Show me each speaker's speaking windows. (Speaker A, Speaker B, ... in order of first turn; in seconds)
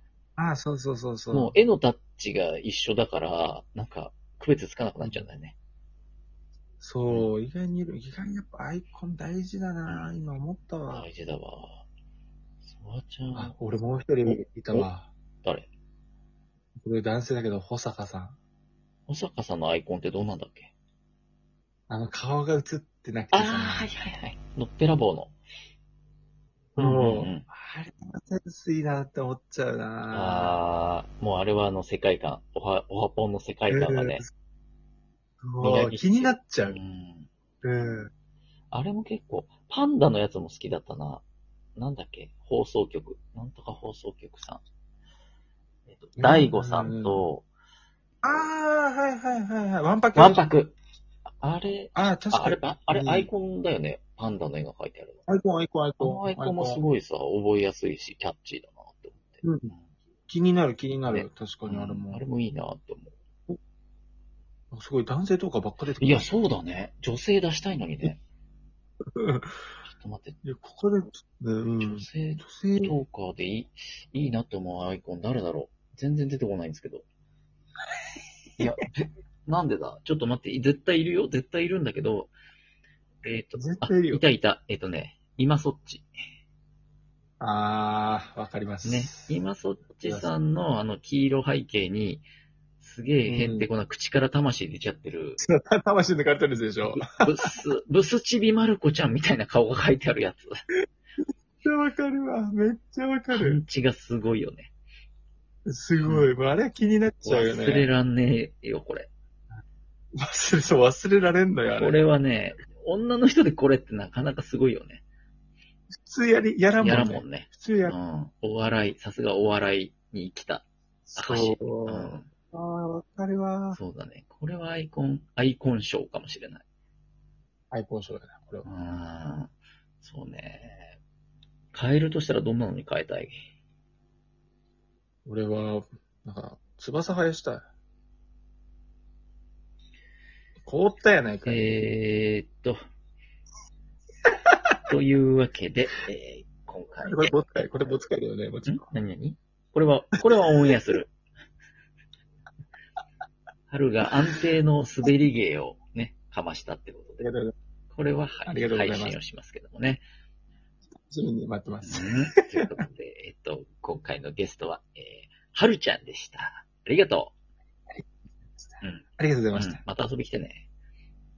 Speaker A: 0.4-1.6, 5.0-5.3, 6.8-11.1, 13.3-15.1, 16.8-18.4, 21.9-23.9, 26.8-30.6, 33.7-34.2, 35.4-36.8, 37.6-38.1, 46.2-47.2, 48.2-50.4, 51.9-53.3, 55.3-56.8, 59.4-59.7, 60.3-62.2, 64.7-66.3, 69.2-69.5, 70.4-73.0, 83.5-84.2, 87.4-89.4, 90.0-90.3, 93.3-93.7, 95.4-97.5, 101.6-103.6, 105.7-107.9, 110.2-112.0, 115.9-118.0, 121.1-123.8, 127.7-128.7, 135.2-137.7, 140.6-141.7, 147.0-148.8, 157.2-157.5, 158.4-159.2, 161.0-162.8, 168.6-169.8
Speaker B: 1.3-5.5, 9.8-10.2, 10.9-11.8, 12.6-13.5, 15.4-15.7, 19.1-20.7, 23.3-25.3, 26.8-27.4, 30.1-34.2, 35.6-37.3, 38.7-41.2, 41.8-44.6, 45.9-47.5, 50.1-50.7, 51.4-55.2, 56.0-59.9, 61.1-63.1, 66.0-68.2, 69.8-70.4, 71.8-77.0, 78.6-82.3, 83.2-86.1, 88.8-92.2, 92.8-95.4, 96.9-100.5, 103.3-104.7, 106.0-106.3, 107.2-109.1, 111.8-115.0, 116.8-122.3, 123.7-126.6, 128.6-130.9, 131.7-133.3, 141.4-142.8, 144.8-147.4, 148.7-151.1, 153.7-157.3, 157.9-160.0, 161.8-167.3, 168.8-170.7